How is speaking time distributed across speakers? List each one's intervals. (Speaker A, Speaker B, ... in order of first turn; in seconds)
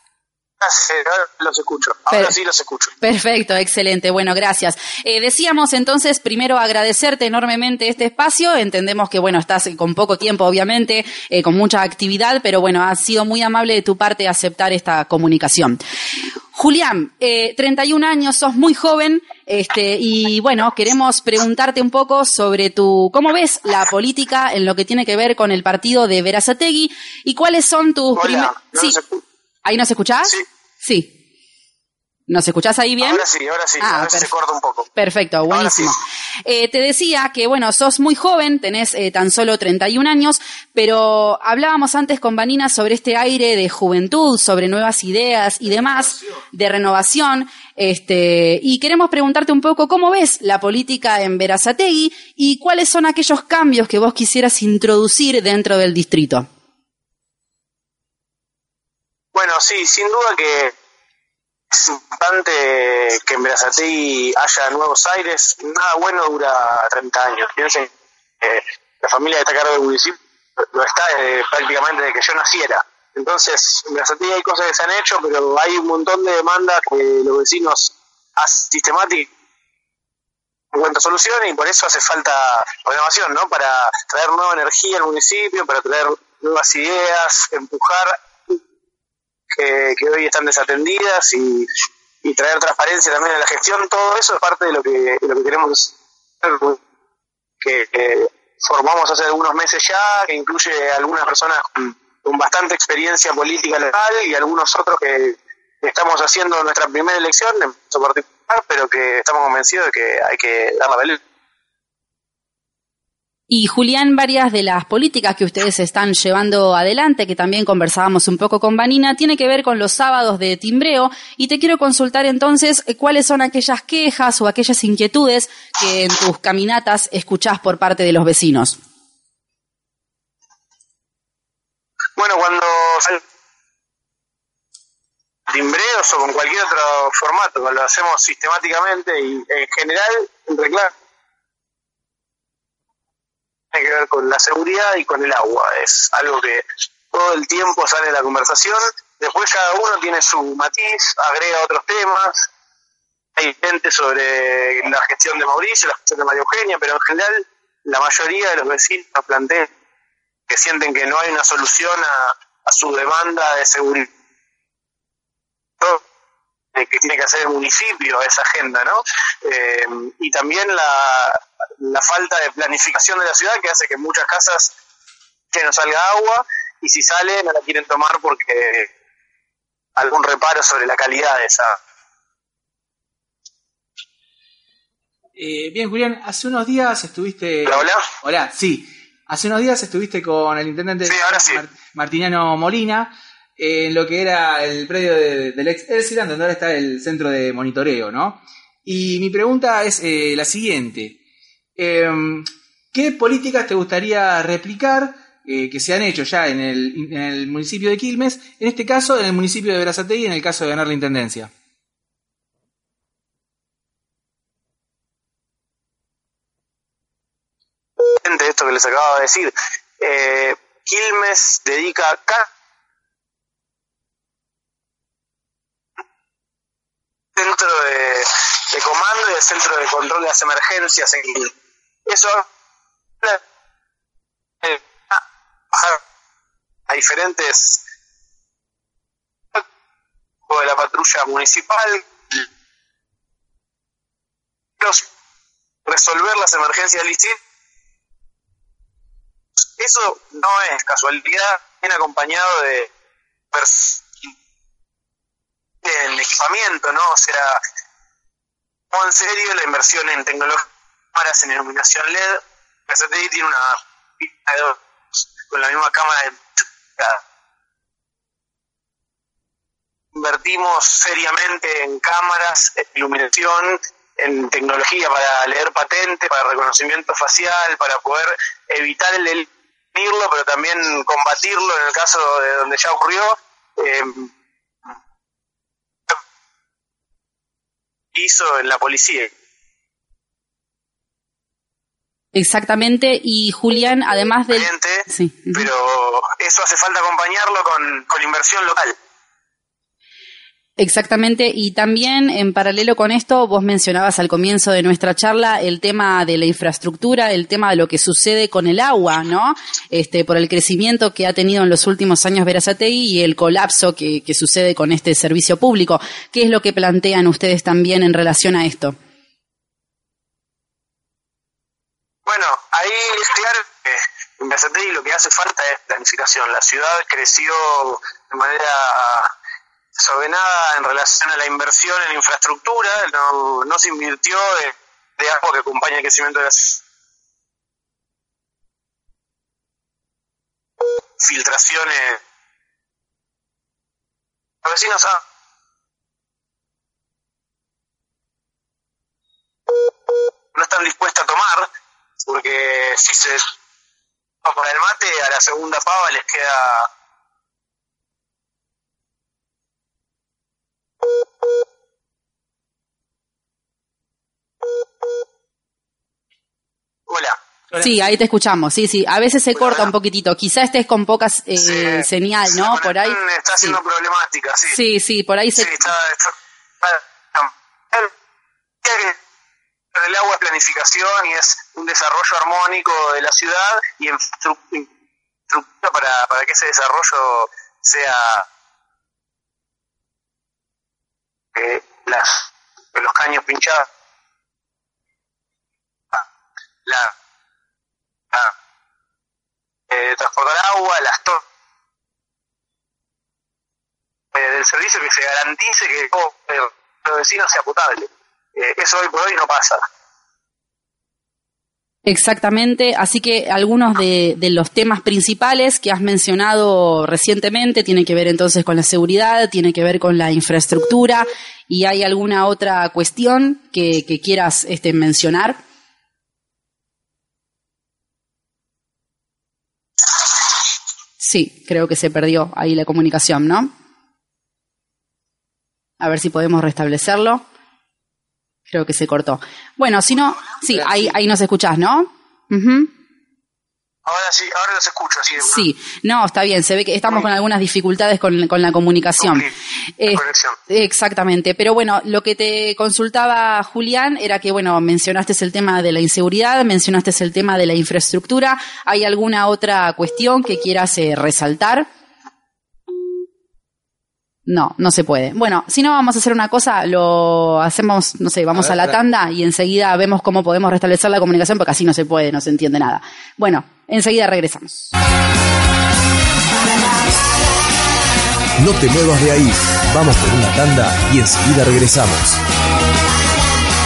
Speaker A: 0.6-2.9, 28.2-29.2, 33.0-34.9, 35.5-35.9, 59.3-60.7, 61.7-67.9, 68.4-79.3, 80.7-88.5, 89.5-91.7, 92.2-96.8, 97.6-111.2, 132.2-133.2, 135.5-140.9, 143.7-152.5, 153.4-159.7, 160.5-164.1, 166.8-174.7, 175.5-178.9, 180.0-181.7, 187.7-188.0, 191.1-191.6, 218.2-222.4, 227.4-231.5, 232.1-232.4, 234.6-235.2, 236.9-237.8, 240.5-242.0, 245.9-247.3, 249.8-252.9, 253.5-254.3, 255.8-257.6, 258.9-260.6, 261.1-264.7, 265.5-267.2, 270.1-284.3, 288.1-289.3, 294.5-298.9, 322.3-329.3, 330.0-336.8, 341.2-342.2, 344.6-345.2, 350.5-351.7, 352.3-353.4, 354.4-356.9, 367.1-367.4, 369.6-369.9, 372.7-374.8, 375.6-376.3, 376.8-378.1, 378.8-379.1, 379.9-384.9, 385.5-388.4, 391.6-393.8, 399.9-401.4, 404.4-409.8, 444.1-445.6, 450.1-450.6
Speaker B: 2.1-2.4, 3.0-15.8, 16.5-29.0, 29.6-31.1, 32.3-33.3, 33.8-34.3, 35.0-56.5, 113.5-128.8, 292.3-295.7, 300.8-319.0, 367.8-373.8, 374.7-375.9, 412.1-425.6, 431.2-433.7, 436.0-437.4, 438.7-442.9, 445.4-461.9, 464.5-474.9
Speaker C: 185.4-201.2, 201.8-211.5
Speaker D: 478.6-482.4